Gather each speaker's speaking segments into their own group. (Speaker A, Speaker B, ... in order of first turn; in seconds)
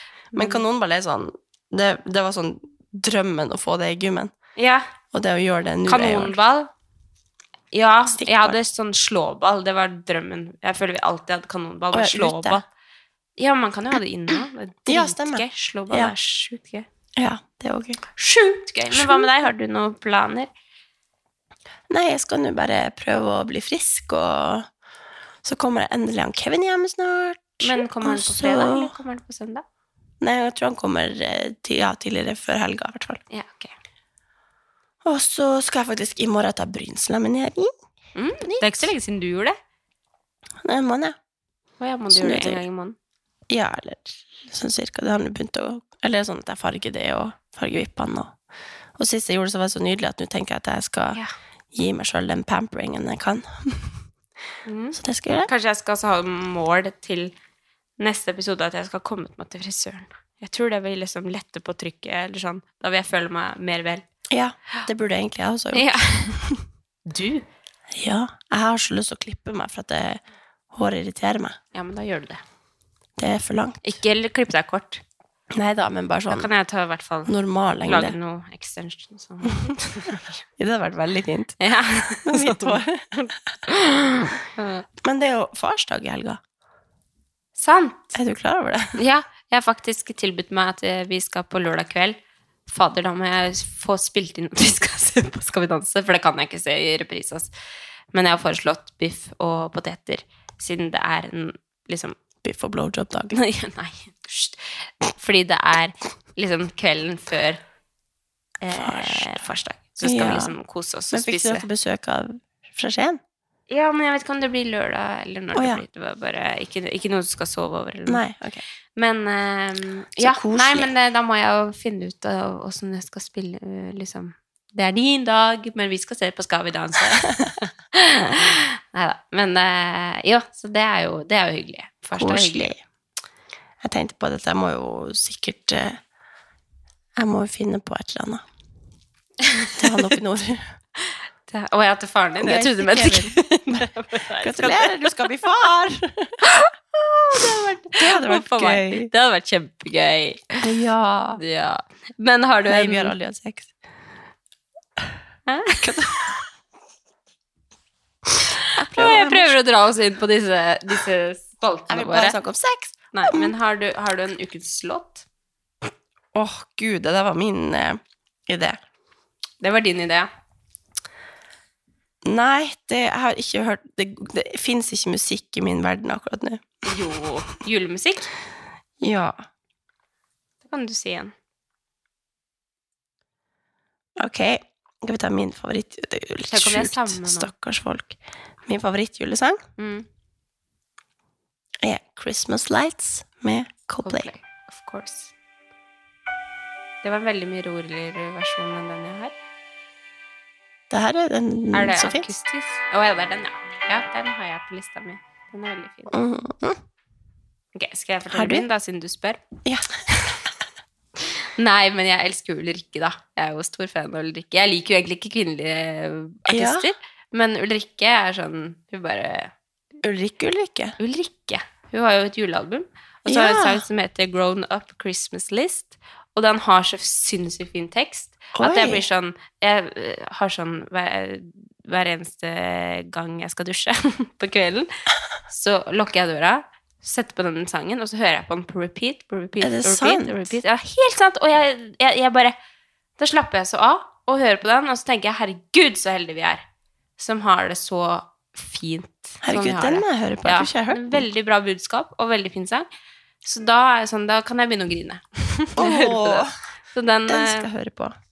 Speaker A: 0.3-0.6, 4.6-4.9, 5.9-6.7, 7.7-12.6, 13.4-16.9, 18.2-20.5, 27.6-29.6, 33.3-33.7, 38.2-39.6, 41.8-43.0, 54.7-57.3, 58.0-64.0, 65.7-66.4, 67.1-67.5, 71.7-72.4, 73.8-75.0, 76.3-77.3, 77.8-80.4, 81.6-82.8, 83.7-84.8, 87.6-88.2, 89.0-92.2, 92.7-97.5, 98.1-102.2, 103.3-107.6, 108.6-111.7, 113.7-118.2, 119.0-132.7, 139.4-139.9, 141.5-145.3, 146.4-150.7, 151.4-153.2, 155.5-156.2, 158.6-162.4, 163.1-165.3, 169.6-170.3, 176.8-178.3, 180.7-181.3, 186.5-187.5, 189.8-190.1, 194.0-195.3, 197.0-199.3, 201.7-206.1, 207.8-209.4, 211.6-219.5, 221.0-234.9, 235.5-242.6, 243.2-246.6, 247.2-252.9, 253.4-257.7
Speaker B: 0.3-4.3, 5.1-6.4, 8.1-8.6, 11.9-12.6, 14.9-16.1, 17.2-18.0, 18.9-19.3, 21.9-24.7, 25.4-28.9, 30.2-33.2, 35.0-37.7, 38.4-38.9, 40.6-41.2, 42.1-42.6, 43.5-48.4, 49.0-51.2, 51.7-54.0, 54.9-55.5, 64.3-66.6, 67.9-71.6, 73.2-73.9, 75.5-76.5, 77.3-78.2, 80.6-83.6, 85.0-86.4, 88.1-89.0, 102.4-103.4, 108.7-109.4, 110.0-110.5, 111.1-113.2, 115.5-115.8, 118.1-118.6, 120.2-120.9, 132.2-132.8, 133.8-136.0, 137.2-138.4, 139.8-140.7, 142.4-143.9, 144.4-146.4, 147.4-149.1, 150.6-151.4, 152.7-153.7, 155.8-156.3, 158.7-159.6, 161.9-163.5, 166.3-168.8, 172.2-176.9, 179.0-179.4, 184.2-189.6, 191.8-194.3, 200.9-202.3, 206.1-206.8, 208.3-208.7, 209.7-210.5, 216.5-216.9, 220.0-221.0, 223.3-223.8, 228.6-229.1, 239.6-240.5, 249.4-251.3, 255.8-256.5, 257.3-258.1